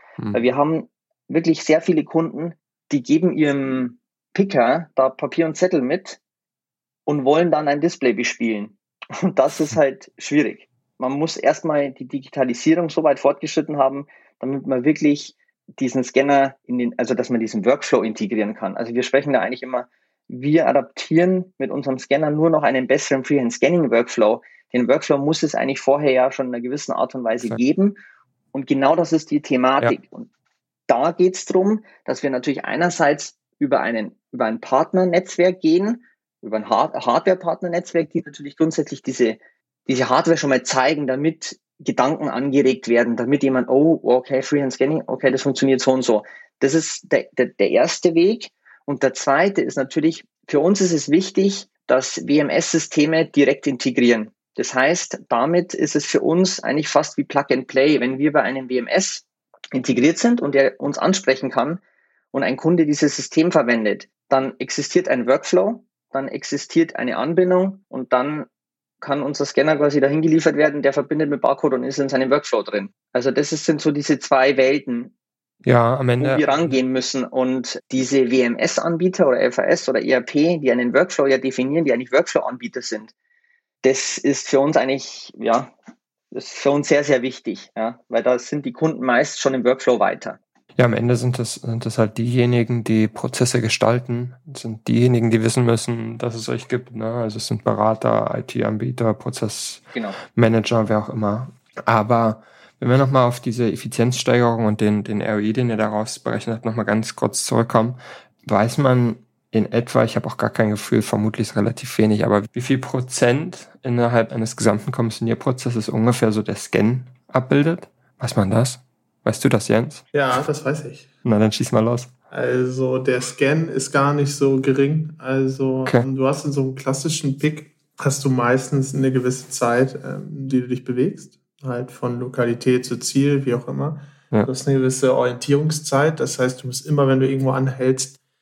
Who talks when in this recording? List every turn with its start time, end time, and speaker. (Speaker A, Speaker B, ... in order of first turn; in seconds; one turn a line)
Speaker A: 0.2-0.5
Speaker B: 0.3-6.2
Speaker B: 7.1-28.0
Speaker B: 28.5-30.3
Speaker B: 30.9-61.8
Speaker B: 62.3-68.5
Speaker B: 69.0-75.1
Speaker A: 75.6-76.7
Speaker B: 76.2-83.1
Speaker B: 83.8-85.7
Speaker B: 86.3-90.4
Speaker A: 90.8-120.0
Speaker C: 120.1-121.1
Speaker A: 121.2-122.1
Speaker C: 122.3-138.2